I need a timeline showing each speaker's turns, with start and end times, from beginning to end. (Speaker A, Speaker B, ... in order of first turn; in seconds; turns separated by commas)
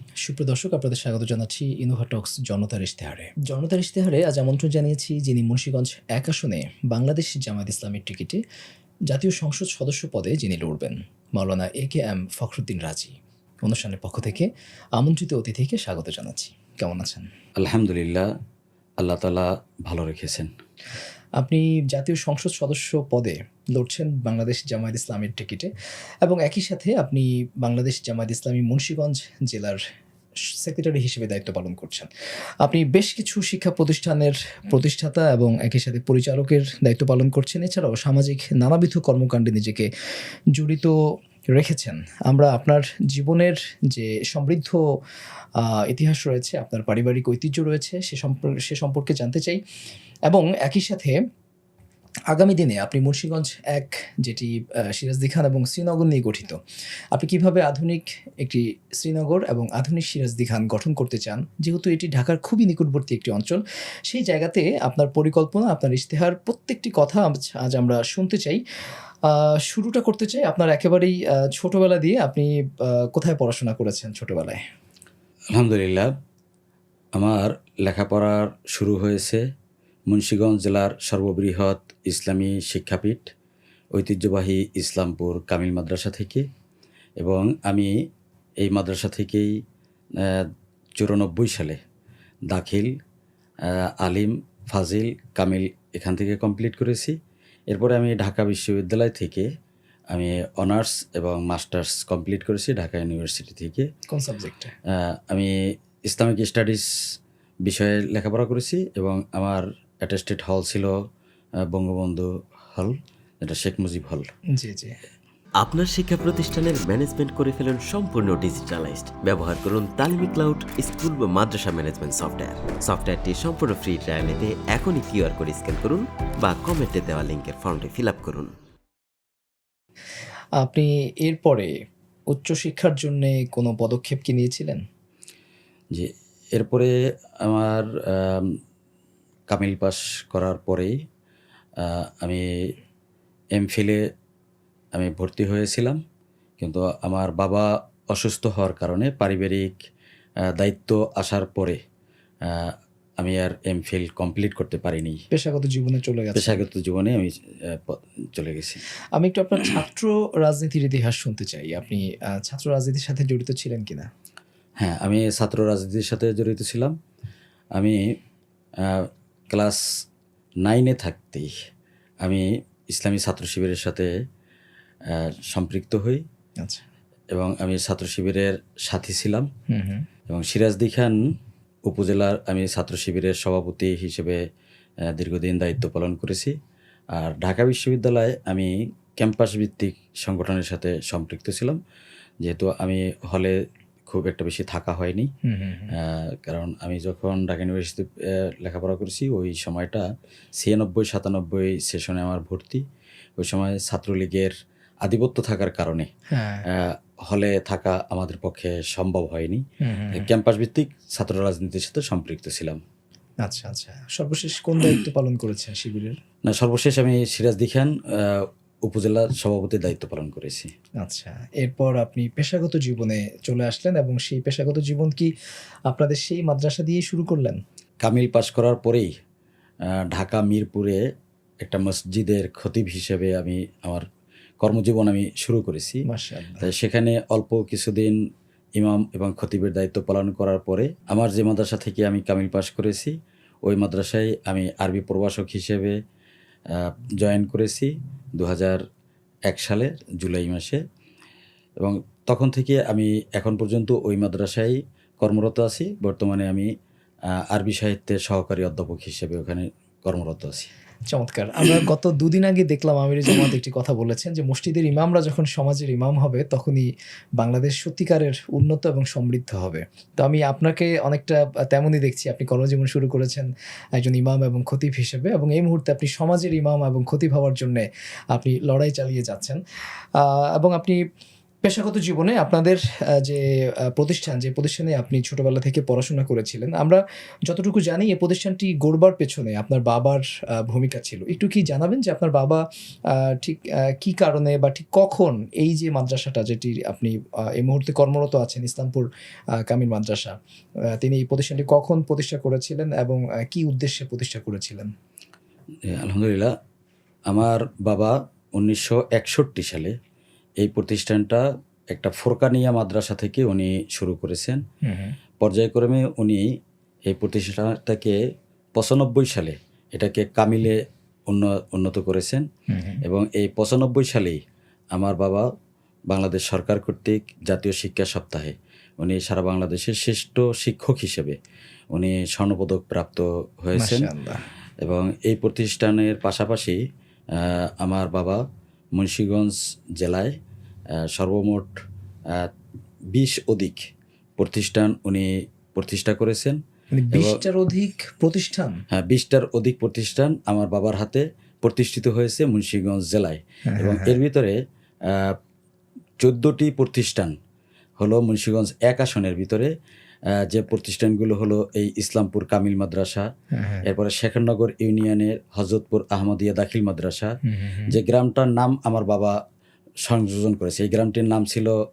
Speaker A: 0.2-8.4, Speaker A: 9.1-17.3, Speaker B: 17.6-18.2, Speaker B: 19.0-20.5, Speaker A: 21.4-25.7, Speaker A: 26.2-29.8, Speaker A: 30.6-32.1, Speaker A: 32.6-39.9, Speaker A: 40.5-40.9, Speaker A: 41.5-44.8, Speaker A: 45.6-49.6, Speaker A: 50.3-51.1, Speaker A: 52.3-56.6, Speaker A: 57.1-68.6, Speaker A: 69.3-74.6, Speaker B: 75.5-76.1, Speaker B: 77.1-79.4, Speaker B: 80.1-83.3, Speaker B: 83.9-86.4, Speaker B: 87.2-87.9, Speaker B: 88.6-89.5, Speaker B: 90.2-91.8, Speaker B: 92.5-92.9, Speaker B: 93.6-97.2, Speaker B: 97.7-99.5, Speaker B: 100.1-103.9, Speaker A: 104.1-104.7, Speaker B: 104.9-106.9, Speaker B: 107.6-111.0, Speaker B: 111.7-114.3, Speaker A: 114.5-114.9, Speaker C: 115.6-128.5, Speaker A: 130.6-131.7, Speaker A: 132.3-134.8, Speaker B: 135.9-138.6, Speaker B: 139.5-140.9, Speaker B: 141.8-142.4, Speaker B: 143.5-144.0, Speaker B: 144.9-146.0, Speaker B: 146.6-149.8, Speaker B: 150.5-151.8, Speaker B: 152.4-155.2, Speaker A: 155.3-156.6, Speaker B: 156.3-158.8, Speaker A: 159.2-164.1, Speaker B: 164.8-166.9, Speaker B: 167.8-168.2, Speaker B: 168.8-169.8, Speaker B: 170.6-171.5, Speaker B: 172.2-174.1, Speaker B: 175.1-176.2, Speaker B: 177.3-179.5, Speaker A: 179.7-180.1, Speaker B: 180.3-181.2, Speaker B: 181.9-184.4, Speaker B: 185.1-186.5, Speaker B: 187.1-191.8, Speaker B: 192.4-193.6, Speaker B: 194.1-195.3, Speaker A: 195.4-195.9, Speaker B: 195.9-200.0, Speaker B: 200.6-202.8, Speaker B: 203.4-204.5, Speaker B: 205.0-206.1, Speaker A: 206.3-206.7, Speaker B: 206.7-212.8, Speaker A: 209.8-210.3, Speaker A: 213.4-216.2, Speaker B: 216.4-220.7, Speaker A: 221.0-225.3, Speaker A: 225.9-227.6, Speaker B: 228.0-229.1, Speaker B: 229.9-231.0, Speaker B: 231.6-234.0, Speaker B: 234.6-236.0, Speaker A: 236.1-236.7, Speaker B: 236.6-238.2, Speaker B: 238.8-243.1, Speaker B: 243.6-246.0, Speaker B: 246.7-248.8, Speaker B: 249.5-250.8, Speaker B: 251.8-256.7, Speaker B: 257.3-260.7, Speaker A: 261.1-266.8, Speaker A: 267.4-279.6, Speaker A: 280.2-281.0, Speaker A: 281.6-292.6, Speaker A: 293.2-299.1, Speaker A: 299.6-300.3, Speaker A: 300.9-304.9, Speaker B: 305.9-306.5, Speaker B: 307.3-309.9, Speaker B: 310.6-314.6, Speaker A: 314.8-315.1, Speaker B: 315.4-316.5, Speaker B: 317.1-318.2, Speaker B: 318.7-322.4, Speaker A: 322.7-323.0, Speaker B: 323.0-324.4, Speaker B: 324.9-325.5, Speaker B: 326.1-331.4, Speaker B: 331.9-334.1, Speaker A: 333.8-334.4, Speaker B: 334.8-336.8, Speaker B: 337.3-338.4, Speaker B: 338.9-340.4, Speaker B: 341.1-341.8, Speaker B: 343.1-343.9, Speaker B: 344.4-346.6, Speaker A: 346.9-348.8, Speaker B: 347.1-347.4, Speaker B: 348.9-355.3, Speaker A: 353.7-354.2, Speaker B: 356.2-357.3, Speaker B: 358.0-359.7, Speaker B: 360.3-363.3, Speaker A: 363.5-363.9, Speaker B: 363.8-367.4, Speaker A: 367.4-367.9, Speaker B: 367.9-369.4, Speaker B: 370.0-371.7